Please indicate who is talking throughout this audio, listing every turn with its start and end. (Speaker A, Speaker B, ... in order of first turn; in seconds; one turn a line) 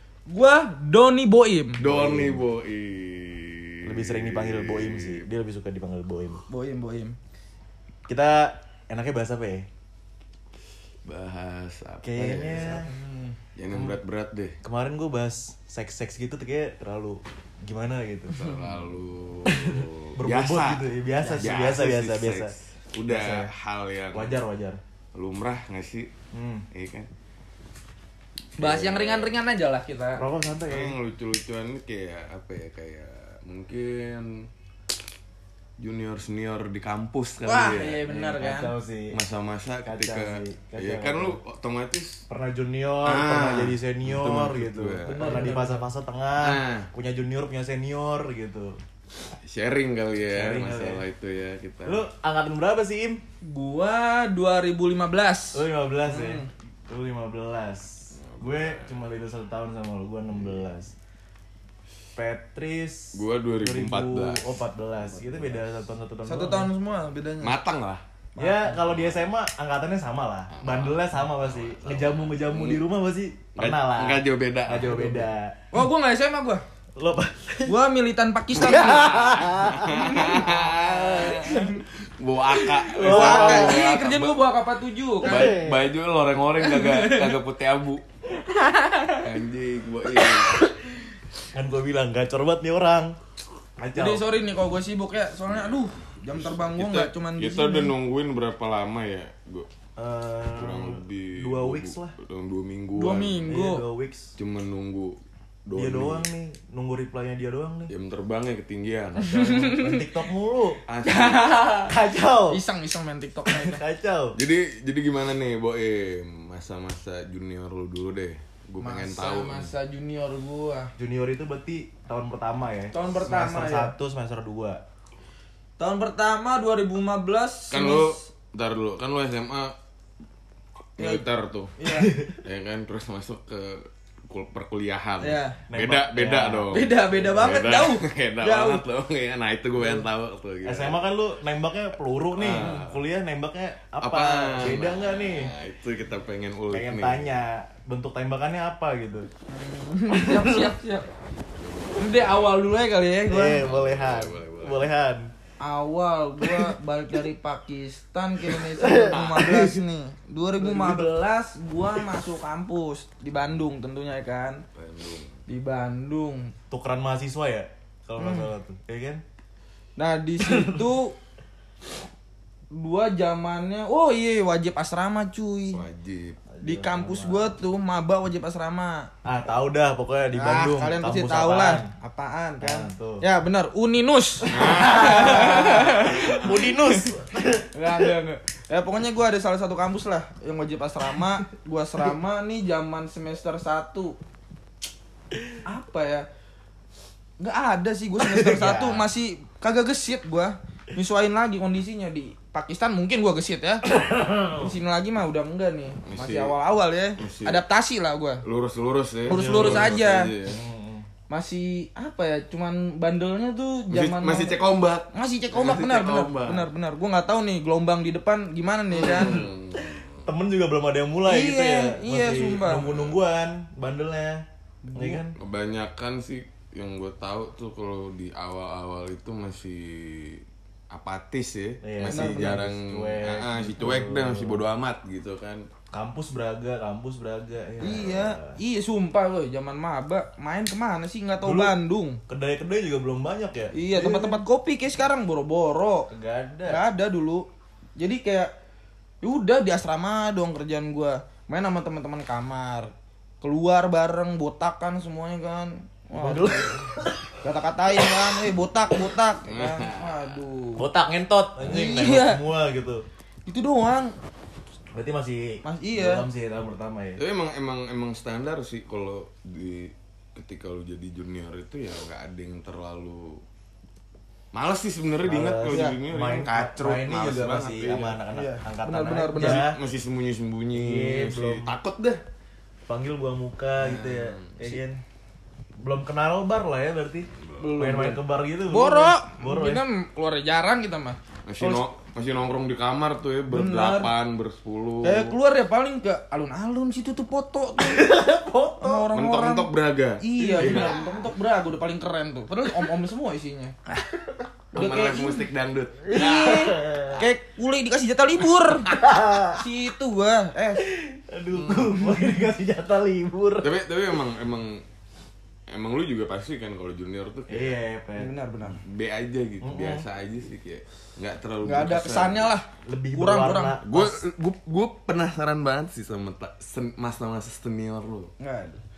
Speaker A: 0.3-1.8
Speaker B: 1.8-5.2
Speaker C: 1.8-2.4
Speaker C: 3.8-6.4
Speaker A: 6.5-7.2
Speaker C: 8.1-9.7
Speaker B: 11.1-12.8
Speaker C: 12.0-12.9
Speaker A: 12.6-13.3
Speaker B: 13.6-14.6
Speaker C: 13.7-14.0
Speaker C: 14.6-18.7
Speaker B: 18.3-24.4
Speaker C: 19.4-22.5
Speaker C: 23.0-23.5
Speaker C: 24.1-24.8
Speaker B: 25.1-26.1
Speaker C: 26.3-26.6
Speaker B: 26.7-27.1
Speaker B: 28.6-29.3
Speaker A: 28.6-30.2
Speaker C: 30.2-31.0
Speaker B: 30.6-34.5
Speaker B: 35.8-38.0
Speaker A: 37.4-38.7
Speaker C: 38.0-39.2
Speaker B: 39.1-42.2
Speaker C: 39.8-41.4
Speaker C: 42.3-48.8
Speaker B: 43.0-45.6
Speaker A: 45.0-45.8
Speaker B: 46.4-46.9
Speaker B: 49.4-52.0
Speaker C: 50.2-51.0
Speaker C: 51.8-53.2
Speaker A: 53.4-56.5
Speaker C: 55.5-60.9
Speaker B: 58.2-59.0
Speaker C: 62.1-66.7
Speaker B: 63.1-65.6
Speaker A: 66.2-67.5
Speaker B: 67.4-68.0
Speaker A: 68.3-68.8
Speaker C: 68.4-75.6
Speaker B: 68.8-69.2
Speaker B: 70.5-72.8
Speaker B: 73.6-75.3
Speaker A: 75.7-76.6
Speaker C: 77.0-77.8
Speaker A: 77.7-81.8
Speaker C: 78.5-80.4
Speaker B: 78.7-84.4
Speaker A: 82.5-85.6
Speaker C: 82.9-83.9
Speaker C: 85.2-85.9
Speaker B: 85.2-88.0
Speaker A: 86.6-87.3
Speaker A: 88.5-89.2
Speaker B: 89.1-90.6
Speaker C: 91.5-93.2
Speaker C: 93.8-94.2
Speaker A: 93.9-97.9
Speaker B: 95.5-99.7
Speaker C: 100.0-102.1
Speaker B: 100.5-103.4
Speaker A: 103.0-103.8
Speaker C: 103.4-104.3
Speaker B: 104.4-106.3
Speaker C: 105.7-107.9
Speaker B: 107.9-109.7
Speaker C: 109.2-110.8
Speaker A: 109.3-110.1
Speaker B: 110.9-111.5
Speaker A: 111.0-111.9
Speaker C: 111.8-112.6
Speaker A: 112.5-113.8
Speaker C: 113.5-114.4
Speaker B: 114.3-119.7
Speaker A: 118.8-120.9
Speaker C: 121.0-124.8
Speaker A: 122.9-123.9
Speaker A: 125.8-128.3
Speaker B: 127.7-129.7
Speaker B: 131.0-131.7
Speaker A: 131.0-131.2
Speaker A: 131.8-132.2
Speaker B: 132.4-141.0
Speaker A: 135.2-135.6
Speaker C: 135.7-137.6
Speaker A: 136.7-138.8
Speaker A: 139.8-140.1
Speaker C: 140.6-145.5
Speaker B: 142.3-143.0
Speaker A: 142.6-142.9
Speaker B: 144.0-147.3
Speaker C: 146.7-149.3
Speaker A: 149.5-151.1
Speaker C: 150.1-150.7
Speaker B: 151.6-152.6
Speaker A: 152.0-153.6
Speaker C: 153.3-155.3
Speaker B: 153.5-154.9
Speaker A: 155.6-164.6
Speaker C: 156.4-156.7
Speaker C: 158.5-159.8
Speaker B: 159.1-159.7
Speaker C: 160.6-161.2
Speaker B: 164.7-165.4
Speaker A: 165.5-166.5
Speaker C: 166.7-169.2
Speaker A: 168.2-168.5
Speaker A: 170.0-171.1
Speaker C: 170.4-170.9
Speaker A: 172.7-175.8
Speaker B: 175.7-176.4
Speaker C: 176.5-177.5
Speaker A: 176.6-179.1
Speaker C: 179.2-181.9
Speaker A: 180.3-187.1
Speaker C: 182.6-183.2
Speaker B: 184.5-186.6
Speaker C: 184.6-188.0
Speaker A: 187.7-194.2
Speaker A: 195.6-196.3
Speaker A: 197.4-203.8
Speaker C: 198.2-199.1
Speaker C: 203.8-204.7
Speaker A: 204.5-208.4
Speaker B: 206.1-206.5
Speaker B: 207.2-207.6
Speaker B: 208.4-210.6
Speaker A: 209.3-210.3
Speaker C: 209.3-211.1
Speaker A: 211.3-214.6
Speaker B: 213.9-216.7
Speaker A: 215.1-219.4
Speaker B: 218.9-220.3
Speaker C: 218.9-225.3
Speaker A: 221.2-222.8
Speaker B: 222.8-223.2
Speaker A: 224.8-225.2
Speaker B: 225.3-235.7
Speaker C: 231.8-234.6
Speaker A: 232.1-232.6
Speaker C: 235.9-238.6
Speaker A: 237.8-242.2
Speaker C: 241.4-241.7
Speaker C: 242.3-244.4
Speaker A: 243.7-246.1
Speaker C: 246.1-246.8
Speaker A: 246.7-247.4
Speaker A: 248.0-248.5
Speaker A: 249.2-256.8
Speaker C: 256.1-257.4
Speaker A: 257.4-260.9
Speaker B: 259.4-260.4
Speaker C: 260.8-263.0
Speaker A: 261.6-262.4
Speaker A: 263.5-264.1
Speaker C: 264.9-267.2
Speaker A: 265.6-266.2
Speaker B: 267.2-273.4
Speaker B: 274.5-278.1
Speaker C: 275.2-279.8
Speaker A: 275.7-276.0
Speaker A: 277.9-279.6
Speaker B: 279.4-282.2
Speaker C: 280.7-281.7
Speaker C: 282.9-285.0
Speaker B: 283.8-284.8
Speaker C: 285.8-289.8
Speaker A: 287.6-291.8
Speaker B: 291.5-295.3
Speaker A: 293.5-294.1
Speaker A: 295.0-298.1
Speaker C: 297.8-299.1
Speaker A: 298.8-299.7
Speaker B: 299.1-300.9
Speaker A: 300.2-304.0
Speaker C: 300.4-301.2
Speaker A: 304.7-305.4
Speaker B: 304.7-307.1
Speaker C: 306.1-307.2
Speaker A: 306.1-308.9
Speaker C: 308.9-309.6
Speaker A: 309.5-310.8
Speaker C: 310.8-313.7
Speaker B: 311.5-311.9
Speaker A: 311.9-312.1
Speaker B: 313.6-314.8
Speaker B: 315.7-317.8
Speaker C: 317.5-318.3
Speaker A: 318.2-318.8
Speaker B: 318.7-322.5
Speaker C: 319.6-320.0
Speaker A: 321.6-323.8
Speaker C: 322.9-324.2
Speaker B: 323.8-328.3
Speaker A: 328.4-328.8